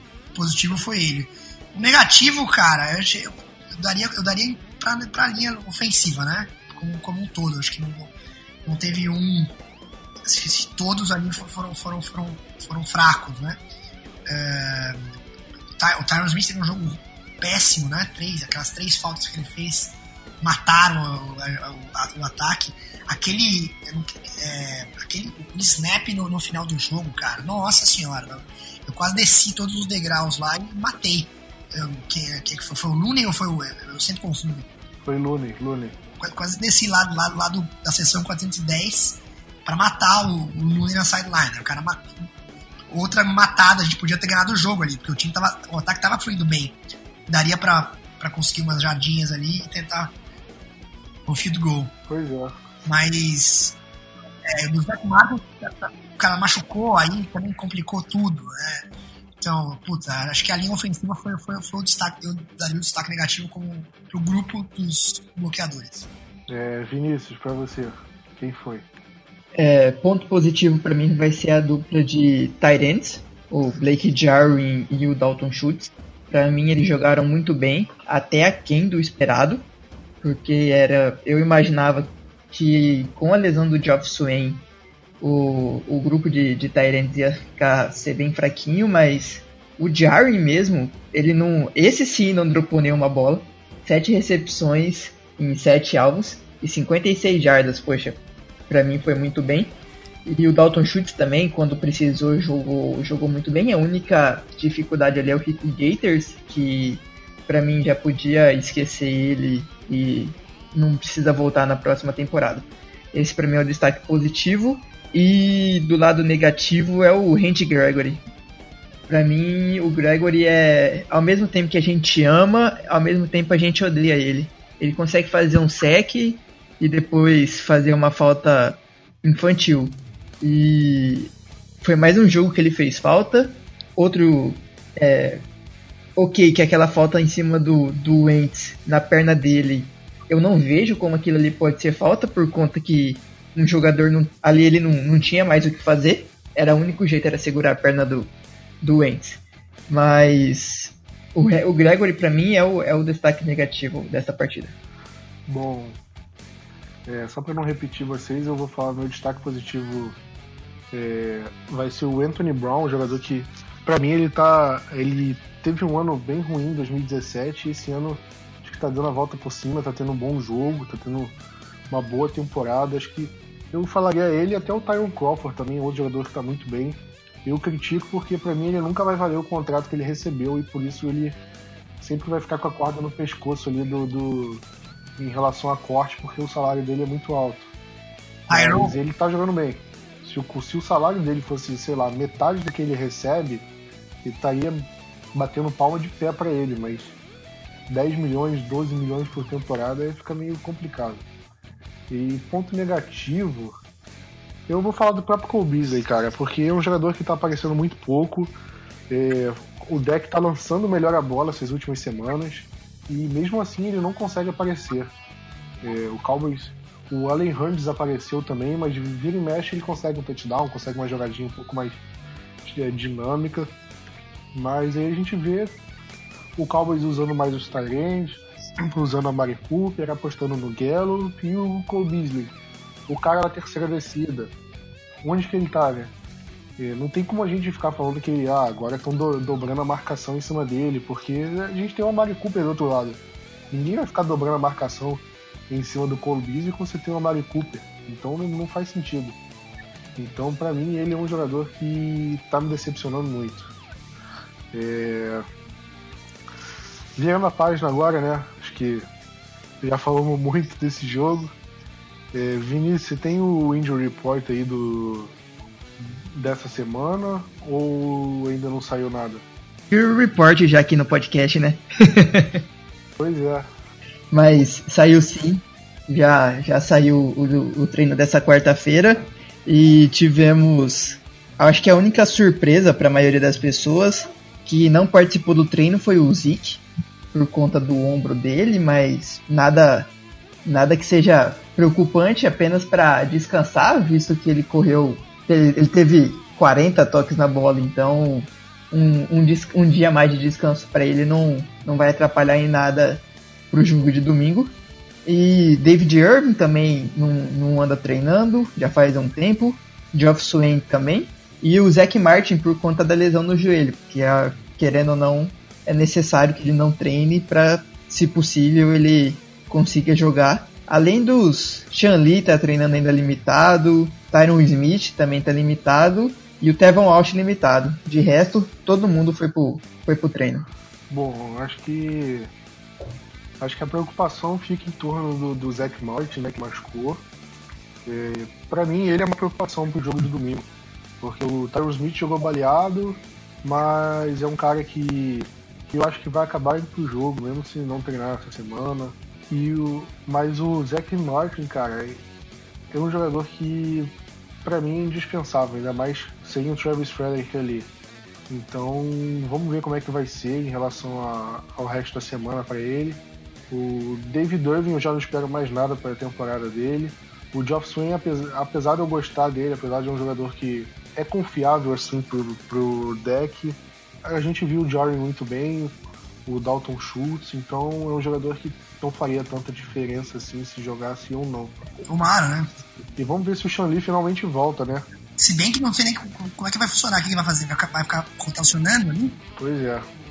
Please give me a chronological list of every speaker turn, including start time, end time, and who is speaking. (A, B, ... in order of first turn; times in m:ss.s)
0:00.3-0:08.1 A
0:08.6-0:09.5 A
0:10.2-0:13.6 A
0:14.2-0:15.2 A
0:15.8-0:34.7 A
0:35.0-0:36.0 B
0:36.2-0:42.3 A
0:42.9-0:46.8 A
0:47.3-0:50.1 A
0:51.2-0:51.9 A
0:52.1-0:52.6 B
0:52.8-0:53.8 A
0:54.4-0:58.9 A
0:59.4-1:06.1 A
1:06.5-1:08.9 B
1:09.6-1:19.6 C
1:20.2-1:24.6 C
1:25.2-1:39.7 C
1:40.2-1:58.2 C
1:59.1-2:15.4 C
2:16.2-2:28.3 C
2:28.8-2:34.7 C
2:35.5-2:36.0 B
2:37.0-2:40.2 B
2:40.9-2:51.4 B
2:51.9-3:01.4 B
3:02.0-3:04.6 B
3:05.2-3:07.7 B
3:08.5-3:09.0 A
3:08.5-3:13.7 B
3:14.2-3:17.2 B
3:17.9-3:21.2 B
3:22.1-3:23.8 B
3:24.7-3:28.6 B
3:29.1-3:35.1 B
3:35.8-3:42.0 B
3:42.6-3:43.7 B
3:44.5-3:45.8 B
3:46.6-3:52.5 B
3:53.1-3:54.5 B
3:55.2-3:56.1 B
3:56.8-4:09.4 B
4:10.2-4:13.7 B
4:14.7-4:15.4 B
4:17.2-4:19.1 B
4:19.8-4:21.5 B
4:22.3-4:25.3 B
4:26.0-4:29.4 B
4:29.9-4:32.6 C
4:33.2-4:33.7 B
4:34.3-4:50.1 C
4:50.6-5:04.7 C
5:05.2-5:30.7 C
5:31.1-5:32.5 B
5:33.6-5:37.2 B
5:38.0-5:40.7 B
5:41.2-5:52.2 B
5:52.9-5:57.9 B
5:58.5-6:21.8 B
6:22.0-6:22.7 A
6:23.2-6:25.0 B
6:25.4-6:29.4 A
6:29.6-6:30.1 B